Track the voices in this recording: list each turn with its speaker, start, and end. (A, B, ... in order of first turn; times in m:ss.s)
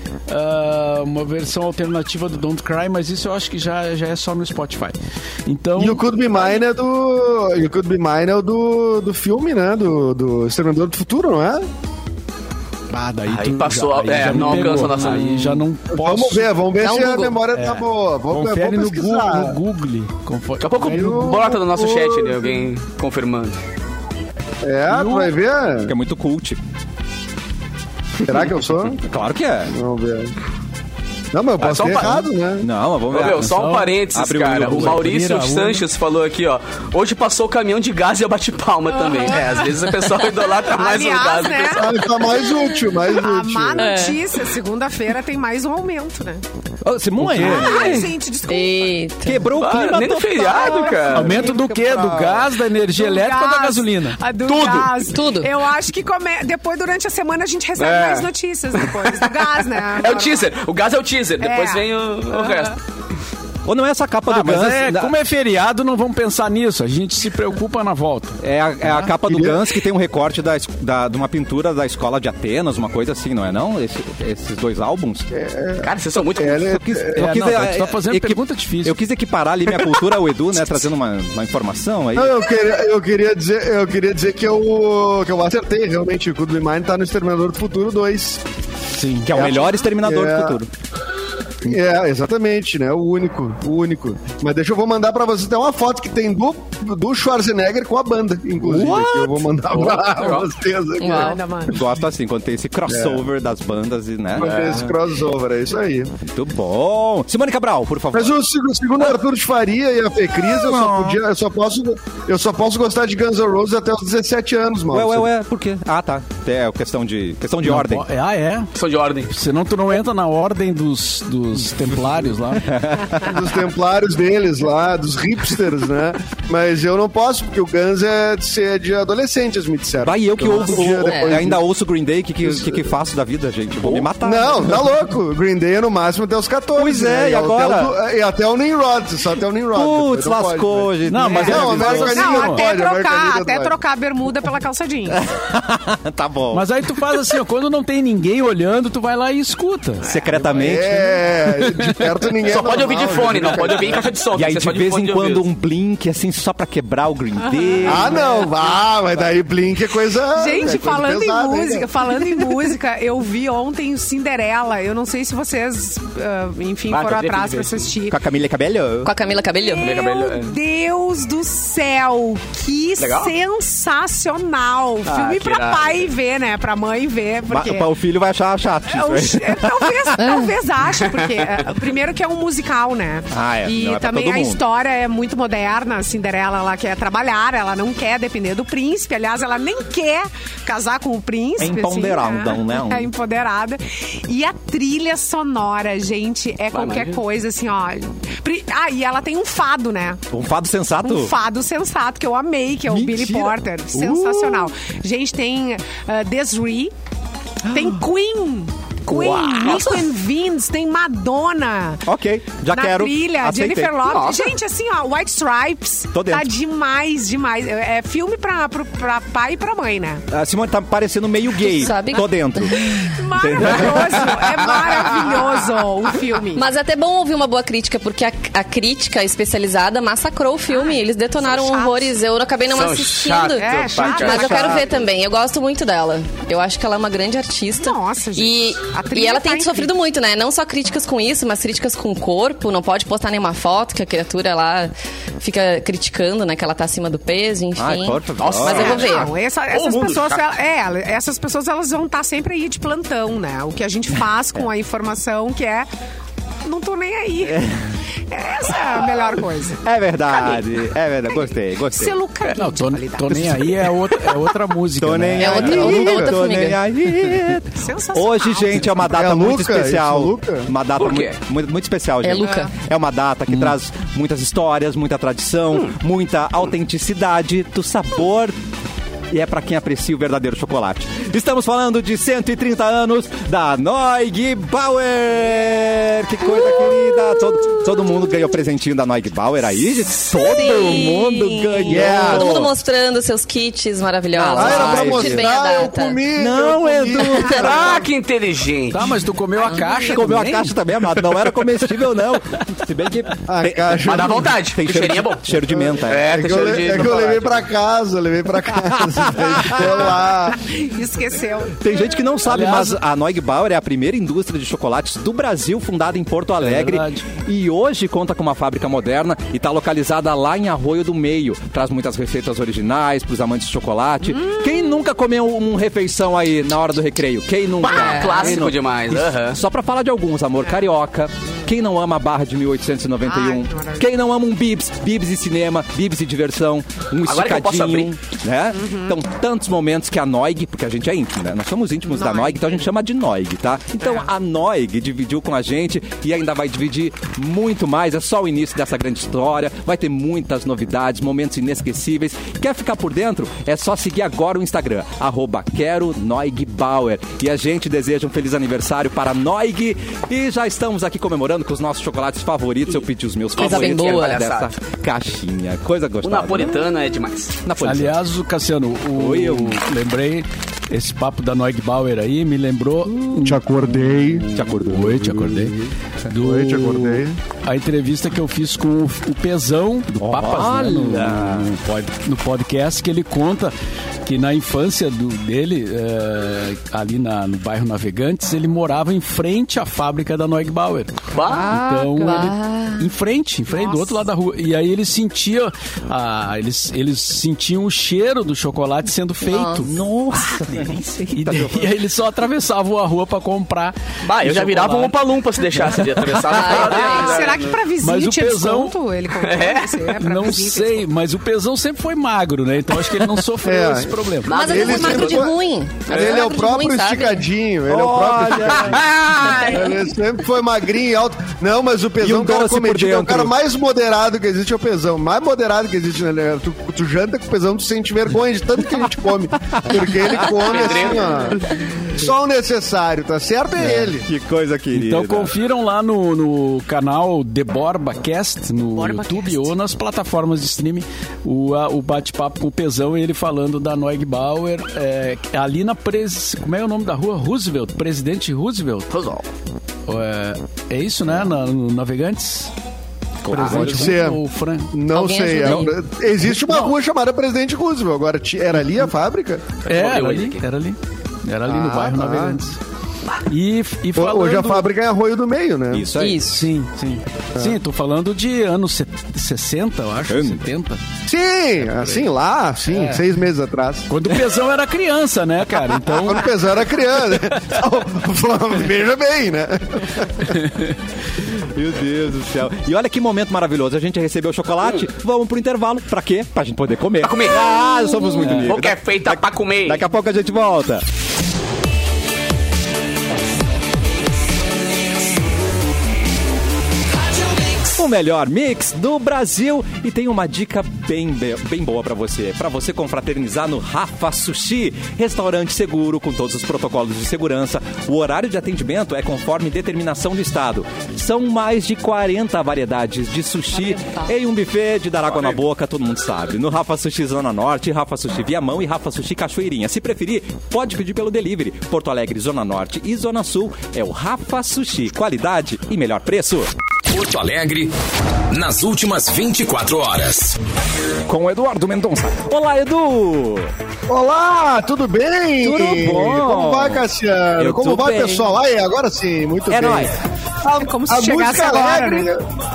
0:00.3-0:06.0 A
0:05.8-0:11.6 B
0:12.9-0:16.5 A
0:13.2-0:15.6 C
0:15.9-0:19.6 B
0:16.8-0:17.4 D
0:17.5-0:21.3 A
0:20.6-0:23.6 C
0:20.8-0:22.6 B
0:24.6-0:25.9 B
0:24.9-0:25.3 A
0:25.8-0:26.6 E
0:28.2-0:29.0 B
0:29.0-0:29.7 E
0:29.7-0:30.3 B
0:31.3-0:32.7 B
0:31.6-0:32.2 C
0:32.6-0:33.5 E
0:33.1-0:42.3 C
0:33.2-0:34.0 A
0:34.1-0:35.1 E
0:34.6-0:35.8 A
0:38.9-0:39.9 F
0:40.6-0:42.0 F
0:41.8-0:44.0 B
0:43.0-0:46.4 F
0:43.8-0:44.2 D
0:46.8-0:48.0 E
0:47.2-0:48.1 A
0:47.4-0:49.0 F
0:48.5-0:49.5 D
0:49.2-0:52.4 E
0:49.6-0:51.5 C
0:51.1-0:54.2 A
0:52.9-1:00.5 F
0:54.4-0:55.1 C
0:55.1-0:55.5 D
0:57.8-1:02.8 C
1:01.4-1:02.8 F
1:03.6-1:05.2 E
1:04.3-1:09.1 A
1:08.4-1:15.3 E
1:09.3-1:09.6 B
1:15.3-1:17.4 B
1:15.8-1:16.8 C
1:16.6-1:22.4 E
1:17.1-1:19.0 A
1:22.1-1:28.4 B
1:29.0-1:29.3 A
1:29.2-1:30.7 E
1:29.3-1:30.6 B
1:31.6-1:41.8 B
1:38.6-1:39.4 E
1:39.7-1:40.5 C
1:41.0-1:41.4 D
1:41.1-1:41.8 F
1:41.7-1:44.6 E
1:42.9-1:43.2 B
1:44.4-1:46.1 B
1:44.4-1:45.0 C
1:46.2-1:48.4 E
1:48.1-1:55.3 B
1:50.4-1:51.2 E
1:54.9-1:58.0 E
1:57.6-1:58.7 A
1:58.8-1:59.3 C
1:59.3-2:02.7 A
2:02.6-2:03.4 E
2:03.2-2:11.6 B
2:10.0-2:14.8 E
2:10.9-2:11.5 D
2:12.4-2:12.9 B
2:13.8-2:23.7 B
2:16.7-2:17.9 E
2:19.7-2:22.2 E
2:21.0-2:22.6 A
2:21.3-2:25.2 F
2:25.1-2:27.3 E
2:26.5-2:30.1 A
2:30.0-2:31.2 E
2:30.4-2:34.1 B
2:31.5-2:32.2 A
2:32.4-2:35.4 C
2:34.3-2:38.5 E
2:37.4-2:38.5 F
2:37.8-2:41.9 B
2:40.3-2:48.2 F
2:46.9-2:47.9 C
2:48.1-2:49.1 E
2:49.0-2:50.0 D
2:49.7-2:57.9 F
2:49.8-2:50.6 C
2:53.0-2:53.3 C
2:55.0-2:56.1 C
2:57.5-3:00.2 E
2:58.9-3:20.2 F
3:00.2-3:00.5 D
3:01.0-3:01.6 C
3:03.3-3:04.6 E
3:11.6-3:13.1 E
3:16.7-3:17.2 C
3:20.3-3:21.3 E
3:21.0-3:26.9 F
3:22.9-3:24.7 E
3:27.6-3:28.0 E
3:27.6-3:32.0 F
3:29.1-3:30.0 C
3:32.0-3:34.0 E
3:32.7-3:40.2 F
3:34.1-3:34.5 C
3:36.1-3:36.5 E
3:40.3-3:45.1 E
3:41.6-3:43.0 D
3:43.1-3:46.7 F
3:46.5-4:09.3 D
3:50.7-3:52.2 F
3:52.7-3:54.7 C
3:53.5-3:54.8 F
3:54.2-3:54.8 E
3:57.7-3:59.9 F
4:07.8-4:09.1 E
4:08.4-4:10.4 C
4:08.7-4:15.9 F
4:16.6-4:17.6 F
4:17.4-4:18.0 E
4:18.3-4:19.8 F
4:18.9-4:19.3 E
4:19.8-4:22.2 E
4:21.3-4:23.6 F
4:22.5-4:25.7 A
4:25.0-4:38.6 E
4:25.4-4:26.8 D
4:25.6-4:26.3 B
4:27.7-4:29.0 F
4:29.0-4:30.7 B
4:31.0-4:31.4 C
4:32.2-4:32.7 D
4:32.4-4:32.7 F
4:39.3-4:52.7 E
4:50.3-4:56.2 D
4:51.9-4:52.6 B
4:54.4-4:55.5 E
4:54.5-4:58.1 B
4:56.3-4:58.0 E
4:57.4-4:59.1 C
4:58.9-5:00.7 A
4:59.6-5:00.4 F
5:00.0-5:06.4 E
5:03.5-5:04.5 B
5:04.0-5:07.7 C
5:05.7-5:10.6 B
5:08.8-5:10.1 E
5:10.0-5:11.8 F
5:11.8-6:06.8 E
5:12.5-5:13.0 A
5:16.6-5:17.2 A
5:24.3-5:24.7 F
5:27.8-5:29.6 C
5:27.8-5:28.6 D
5:33.2-5:34.1 F
5:37.2-5:38.1 C
5:38.7-5:39.2 F
5:42.1-5:42.9 F
5:44.0-5:44.3 F
6:03.6-6:04.7 C
6:03.6-6:04.4 D
6:06.2-6:07.6 C
6:07.6-6:08.2 E
6:07.8-6:23.7 A
6:09.1-6:09.8 E
6:13.2-6:13.4 E
6:13.4-6:14.4 B
6:14.5-6:15.9 E
6:16.3-6:17.4 B
6:20.2-6:21.7 E
6:24.2-6:39.9 A
6:31.3-6:31.7 C
6:31.7-6:33.1 D
6:33.7-6:34.1 F
6:39.5-6:39.8 D
6:39.8-6:41.9 E
6:40.5-6:45.2 A
6:44.2-6:47.8 C
6:45.8-6:46.8 A
6:46.5-6:47.4 D
6:46.8-6:51.1 F
6:48.0-6:48.9 A
6:49.4-6:50.1 C
6:50.2-6:54.6 A
6:53.6-7:14.3 B
6:54.4-6:55.5 C
6:54.5-6:57.4 D
6:56.1-6:56.5 C
6:57.9-6:59.5 E
6:58.8-6:59.8 C
7:02.2-7:03.5 E
7:10.3-7:10.9 E
7:10.4-7:11.6 C
7:13.9-7:15.5 E
7:14.9-7:29.1 A
7:19.0-7:19.7 F
7:29.1-7:29.4 C
7:30.1-7:32.7 A
7:33.4-7:34.9 A
7:33.5-7:34.1 E
7:33.5-7:33.9 C
7:33.6-7:39.7 B
7:35.1-7:36.0 D
7:39.8-7:42.8 A
7:39.9-7:40.6 C
7:41.6-7:42.6 B
7:43.5-7:44.9 A
7:44.2-7:46.1 B
7:45.9-7:46.4 E
7:46.2-7:46.6 D
7:46.4-7:51.0 A
7:50.3-7:50.6 E
7:51.2-7:54.1 B
7:52.9-7:53.2 A
7:54.1-7:56.5 A
7:56.2-8:00.6 B
8:01.5-8:11.0 E
8:07.2-8:07.6 C
8:08.4-8:08.7 A
8:08.5-8:10.0 C
8:17.8-8:46.7 E
8:33.8-8:34.3 D
8:35.3-8:35.6 C
8:47.1-8:47.9 G
8:48.5-8:50.6 G
8:51.3-8:53.7 E
8:54.1-9:02.4 B
8:55.6-8:58.6 E
8:59.7-9:00.2 E
9:00.8-9:02.3 F